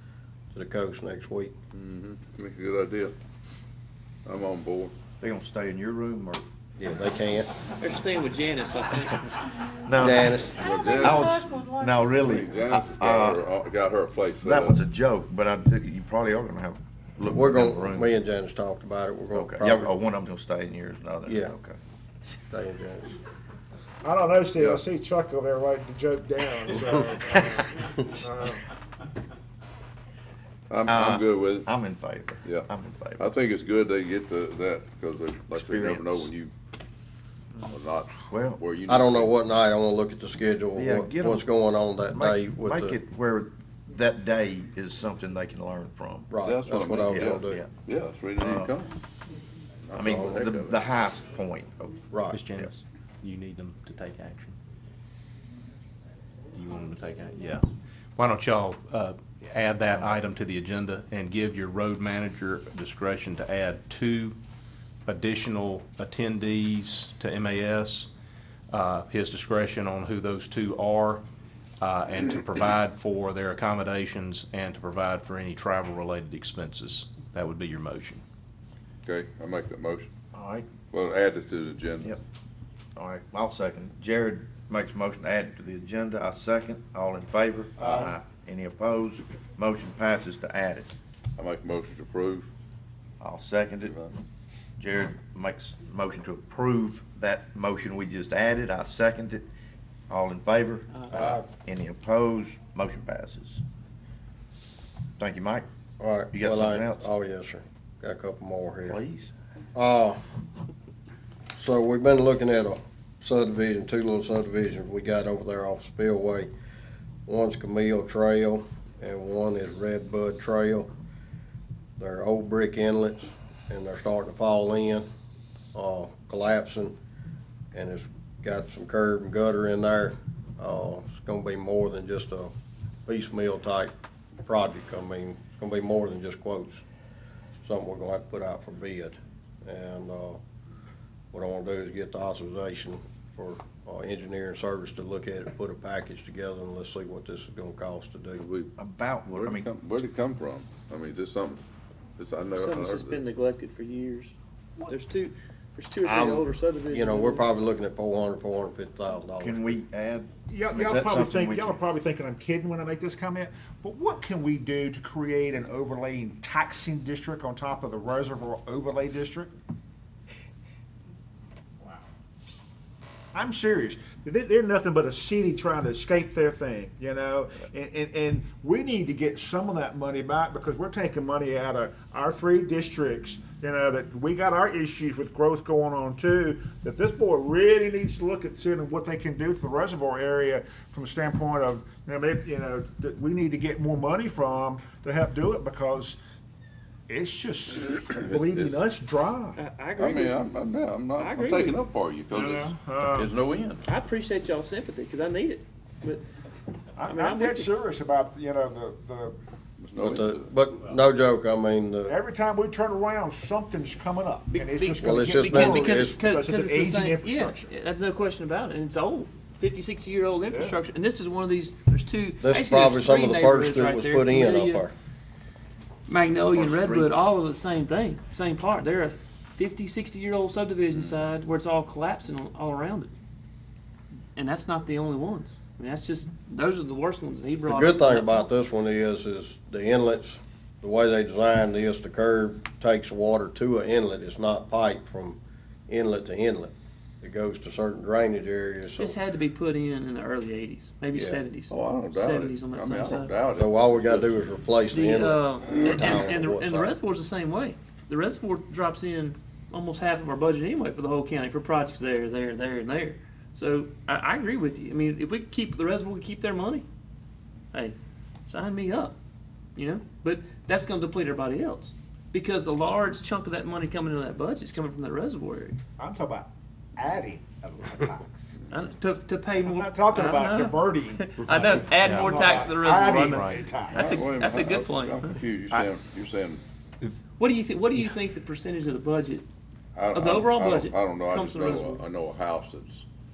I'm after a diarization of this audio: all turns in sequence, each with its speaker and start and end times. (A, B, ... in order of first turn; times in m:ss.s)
0:00.5-0:01.5 A
0:01.7-0:03.1 B
0:04.2-0:04.9 B
0:05.2-0:06.4 C
0:06.8-0:07.5 A
0:07.8-0:09.2 D
0:09.8-0:13.4 C
0:09.9-0:10.5 A
0:10.6-0:11.2 B
0:12.2-0:14.8 B
0:14.4-0:18.2 C
0:17.3-0:19.9 A
0:19.3-0:21.8 C
0:21.2-0:21.5 A
0:22.5-0:23.1 A
0:24.0-0:28.6 E
0:30.7-0:31.7 B
0:30.9-0:33.3 C
0:33.2-0:36.5 B
0:35.5-0:36.3 C
0:37.6-0:39.3 B
0:38.3-0:38.6 C
0:38.9-0:43.0 A
0:40.7-0:41.4 C
0:42.1-0:46.3 C
0:46.3-0:47.6 A
0:46.4-0:48.9 B
0:47.1-0:47.7 C
0:48.4-0:48.7 C
0:49.9-0:50.8 B
0:49.9-0:52.7 C
0:50.0-0:50.4 A
0:52.1-0:52.4 A
0:52.3-0:54.6 F
0:56.5-0:57.6 F
0:58.2-1:04.4 F
1:05.0-1:08.1 F
1:08.7-1:11.2 F
1:11.8-1:18.2 F
1:19.0-1:20.1 B
1:20.3-1:20.6 C
1:20.9-1:22.1 B
1:23.0-1:30.9 C
1:31.4-1:32.5 B
1:33.2-1:34.0 C
1:34.8-1:39.4 C
1:40.1-1:43.6 C
1:41.1-1:41.4 E
1:45.2-1:45.6 C
1:46.0-1:49.0 A
1:46.3-1:47.1 C
1:48.8-1:49.3 C
1:49.7-1:50.2 A
1:51.6-1:56.5 A
1:57.3-2:00.9 A
2:02.0-2:05.0 A
2:05.7-2:06.9 A
2:07.7-2:12.5 A
2:13.0-2:13.9 A
2:14.4-2:16.8 A
2:17.6-2:20.4 A
2:21.3-2:28.4 A
2:28.4-2:28.7 B
2:28.8-2:29.7 C
2:29.4-2:31.6 B
2:32.2-2:33.2 B
2:32.6-2:34.3 D
2:34.9-2:37.4 D
2:36.0-2:39.8 A
2:39.4-2:41.8 C
2:40.5-2:49.5 E
2:53.3-3:16.2 E
3:17.1-3:19.6 E
3:18.2-3:18.8 B
3:19.6-3:20.5 D
3:20.0-3:23.8 B
3:21.2-3:21.8 D
3:22.3-3:23.4 E
3:23.8-3:26.2 D
3:27.0-3:29.3 E
3:27.1-3:27.7 D
3:29.8-3:30.5 B
3:30.0-3:32.1 A
3:32.1-3:37.7 E
3:34.5-3:44.8 D
3:35.0-3:36.2 A
3:40.5-3:40.8 E
3:42.4-3:44.9 A
3:46.1-3:53.1 D
3:46.6-3:47.0 B
3:54.3-3:58.5 D
3:57.7-4:09.2 A
4:09.0-4:13.3 D
4:11.1-4:11.4 A
4:11.7-4:14.4 B
4:13.6-4:16.9 A
4:14.9-4:26.8 D
4:28.5-4:29.1 D
4:29.8-4:35.8 D
4:36.0-4:38.6 E
4:38.7-4:45.4 D
4:39.6-4:44.3 E
4:42.0-4:42.5 F
4:43.2-4:43.6 F
4:43.9-4:46.6 B
4:47.4-4:49.4 D
4:49.9-4:53.0 B
4:50.1-4:52.0 D